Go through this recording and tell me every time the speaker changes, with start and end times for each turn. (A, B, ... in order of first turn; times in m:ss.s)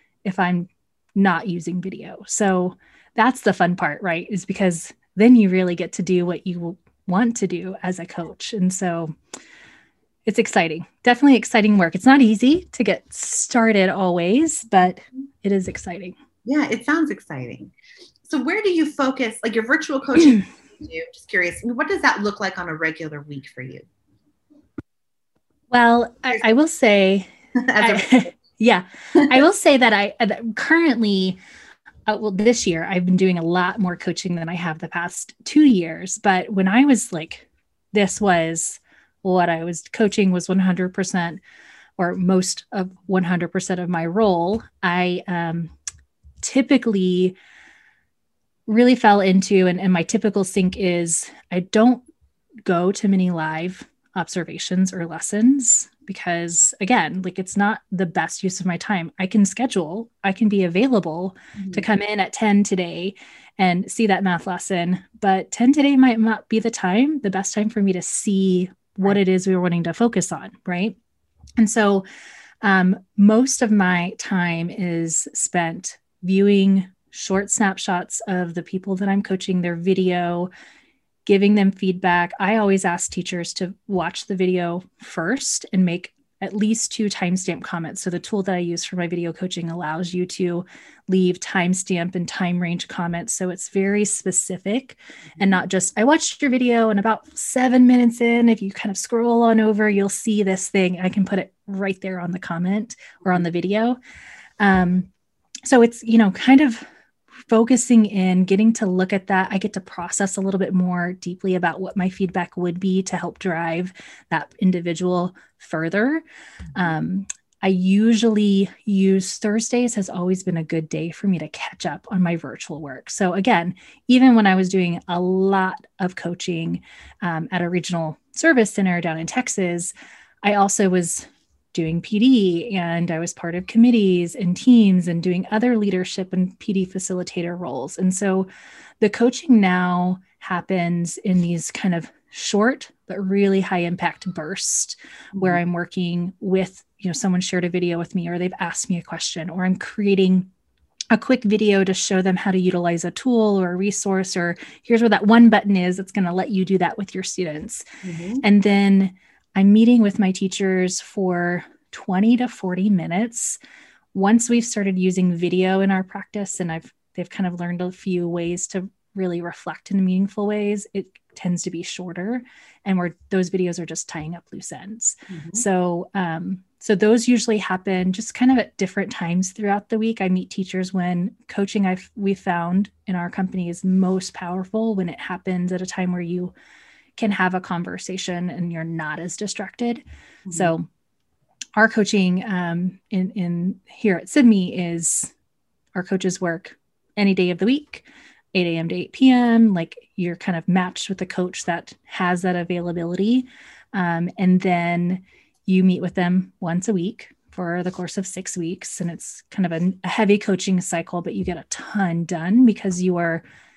0:00.2-0:09.2 A
0:10.3-0:16.2 A
0:16.4-0:17.7 B
0:18.3-0:23.8 B
0:25.7-0:31.4 A
0:27.6-0:28.3 B
0:32.1-0:41.4 A
0:42.0-0:45.7 A
0:46.4-0:47.4 A
0:48.7-0:52.0 A
0:52.7-1:11.0 A
1:01.6-1:01.9 B
1:11.6-1:12.0 A
1:12.6-1:20.5 A
1:21.3-1:44.0 A
1:44.6-1:45.1 A
1:45.6-1:46.8 A
1:47.5-1:56.2 A
1:56.8-2:09.9 A
2:10.4-2:18.5 A
2:19.0-2:30.5 A
2:31.1-2:37.9 A
2:38.0-2:38.4 B
2:38.4-2:43.6 A
2:44.1-3:06.5 A
2:55.3-2:55.6 B
3:07.2-3:10.9 A
3:11.8-3:15.3 A
3:16.0-3:33.4 A